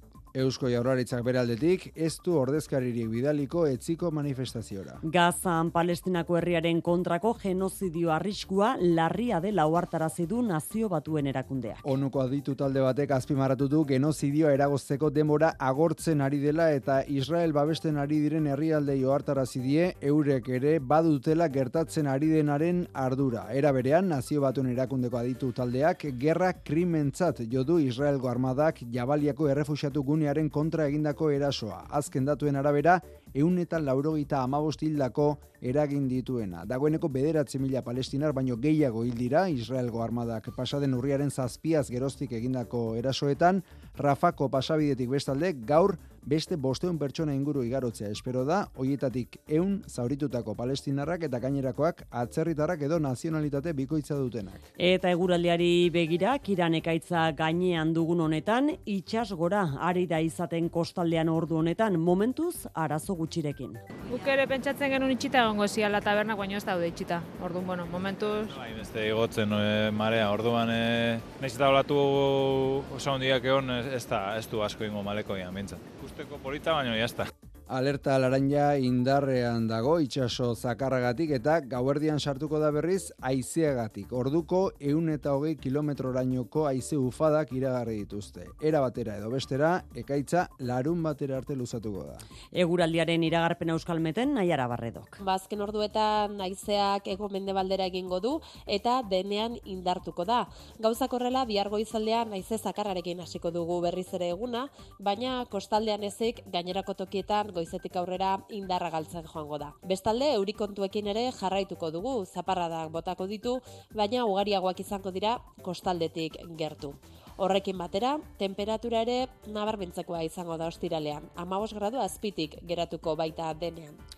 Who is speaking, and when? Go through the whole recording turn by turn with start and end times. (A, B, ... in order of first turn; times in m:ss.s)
0:00.3-0:05.0 A
0:05.0-0:11.8 B
0:11.8-0:54.6 A
0:54.8-1:03.8 B
1:04.2-1:08.5 C
1:08.4-1:17.3 D
1:17.7-1:32.2 A
1:32.5-1:35.2 B
1:35.2-2:04.0 E